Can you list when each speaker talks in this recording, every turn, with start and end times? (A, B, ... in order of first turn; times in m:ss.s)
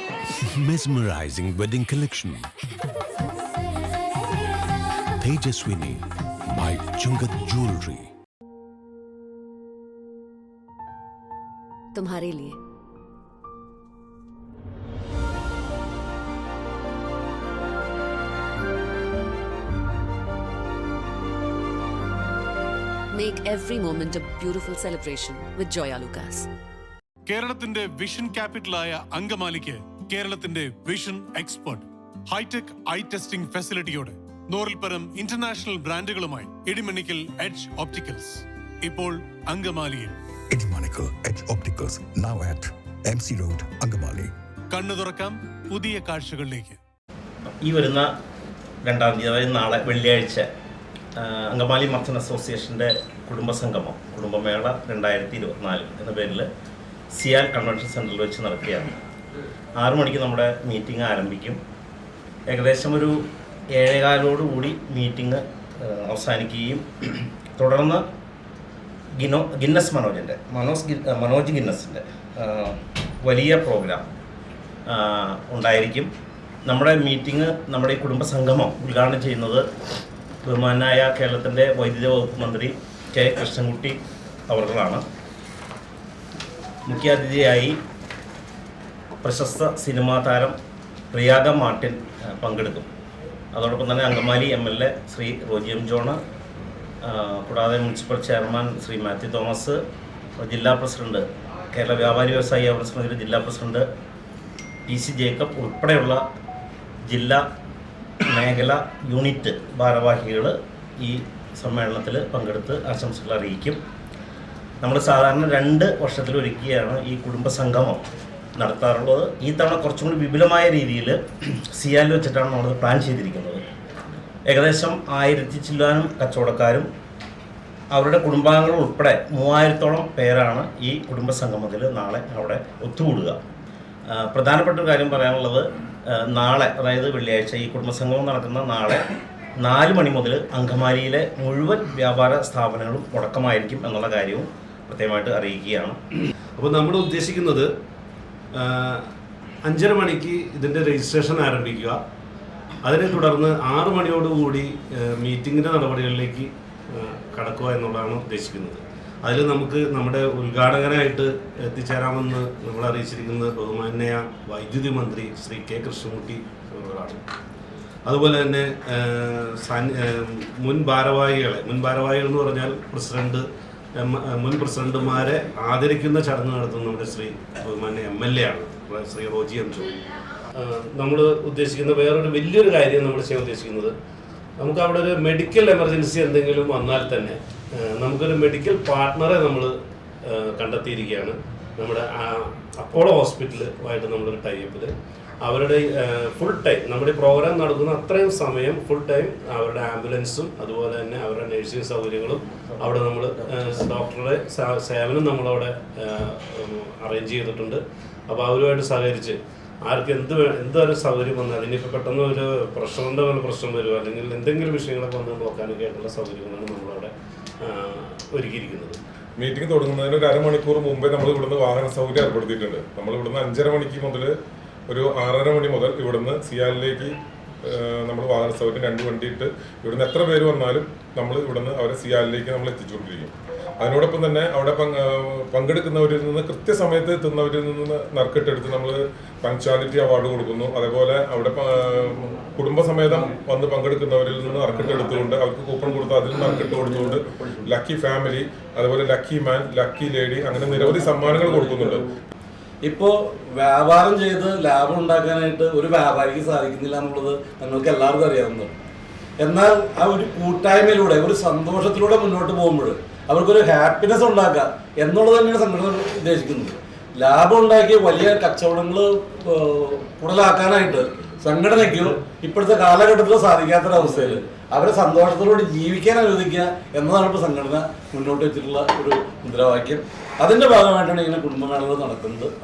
0:00.5-0:02.5 A
0:03.2-0:04.9 B
0:05.2-0:08.1 A
0:11.9-0:12.6 B
0:23.1-0:26.5 B
0:27.3-0:40.2 C
0:40.5-0:44.3 D
0:44.7-0:46.8 C
0:47.6-0:48.1 E
0:48.8-0:50.4 E
0:51.2-0:56.5 E
0:57.1-0:58.9 E
0:59.8-1:01.6 E
1:02.5-1:03.2 E
1:03.7-1:08.0 E
1:09.2-1:14.0 E
1:14.9-1:16.1 E
1:16.6-1:19.6 E
1:20.4-1:24.0 E
1:24.5-1:25.0 E
1:26.9-1:27.8 E
1:29.2-1:30.5 E
1:31.1-1:32.9 E
1:33.5-1:36.2 E
1:37.0-1:39.8 E
1:40.4-1:43.8 E
1:44.8-1:46.2 E
1:47.1-1:47.4 E
1:48.3-1:53.8 E
1:54.8-1:58.0 E
1:58.6-2:01.2 E
2:01.7-2:03.6 E
2:04.5-2:06.9 E
2:07.9-2:13.4 E
2:14.1-2:26.0 E
2:26.6-2:27.7 F
2:28.5-2:29.1 F
2:29.6-2:32.0 F
2:32.8-2:47.2 F
2:48.0-2:53.4 F
2:54.0-3:00.0 F
3:00.6-3:03.9 F
3:04.6-3:39.0 F
3:39.4-3:44.3 G
3:44.9-3:47.1 G
3:47.6-4:12.1 G
4:11.4-4:11.9 H
4:12.8-4:18.8 H
4:19.4-4:42.5 H